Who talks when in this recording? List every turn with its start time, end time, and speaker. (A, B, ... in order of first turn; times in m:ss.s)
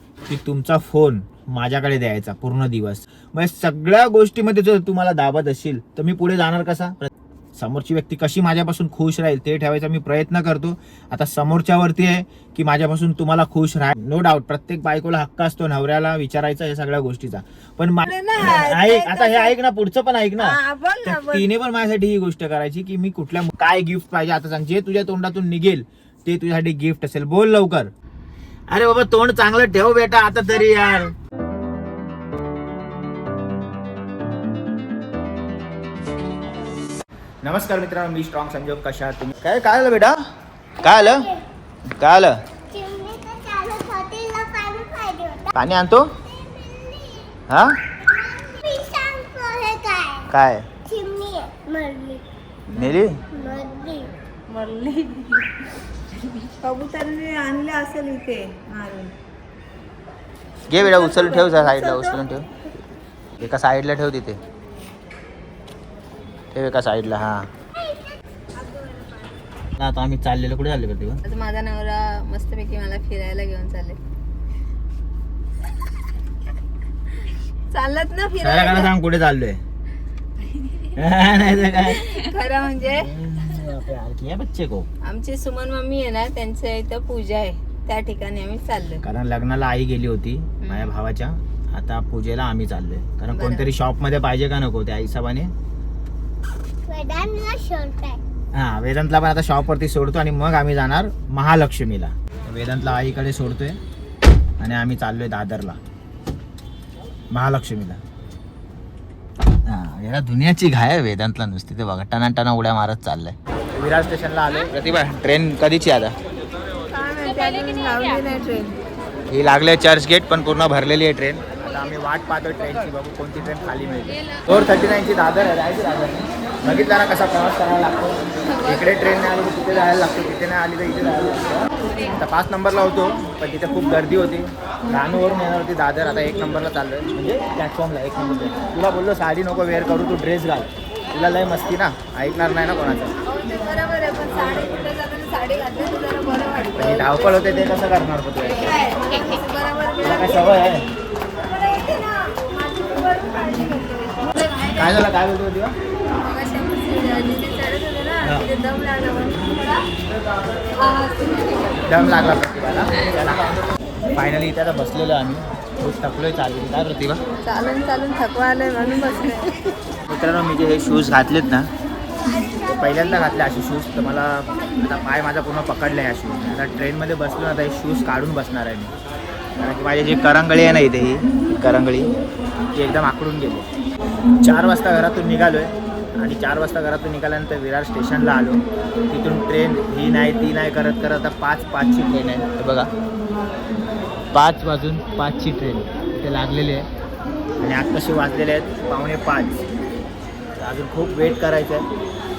0:00.3-0:27.9 A
0:18.0-0:19.6 B
0:20.4-0:21.5 B
0:28.7-0:31.1 A
0:30.6-0:30.9 B
0:37.4-0:40.2 A
0:40.8-0:41.3 A
0:40.8-0:41.4 C
0:42.0-0:42.4 A
0:42.7-0:45.5 C
0:45.5-0:46.1 A
0:46.3-0:47.4 C
0:47.5-0:47.8 A
0:48.1-0:50.3 C
0:50.3-0:50.7 A
0:50.8-0:52.2 C
0:52.7-0:53.2 A
0:52.7-0:53.0 B
0:53.3-0:54.1 C
0:54.5-0:55.3 B
0:56.6-0:59.1 B
1:00.7-1:02.5 A
1:00.7-1:02.2 B
1:03.4-1:04.4 A
1:06.5-1:07.5 A
1:07.8-1:08.1 C
1:08.6-1:09.4 B
1:09.8-1:11.2 A
1:11.2-1:14.0 B
1:17.7-1:18.9 B
1:18.4-1:19.6 A
1:20.9-1:22.0 A
1:21.9-1:23.1 B
1:22.9-1:24.9 A
1:25.0-1:29.0 B
1:29.0-1:35.5 A
1:30.6-1:31.0 B
1:33.3-1:33.7 B
1:36.9-1:38.2 C
1:38.5-1:43.8 A
1:44.6-1:45.8 A
1:47.3-1:48.0 A
1:49.7-1:56.2 A
1:56.9-1:58.7 B
1:59.3-2:23.2 A
2:23.2-2:27.7 B
2:26.8-2:28.8 A
2:28.4-2:30.8 B
2:30.0-2:30.9 A
2:31.4-2:35.0 B
2:34.8-2:35.8 A
2:36.2-2:39.8 B
2:38.2-2:38.5 A
2:40.8-2:41.8 B
2:41.8-2:43.6 A
2:44.1-2:47.2 A
2:47.4-2:49.6 B
2:50.1-2:51.7 A
2:52.6-2:58.9 A
2:59.6-3:02.1 A
3:02.7-3:03.7 A
3:04.4-3:12.9 A
3:14.3-3:16.9 A
3:17.6-3:19.6 A
3:20.6-3:21.9 A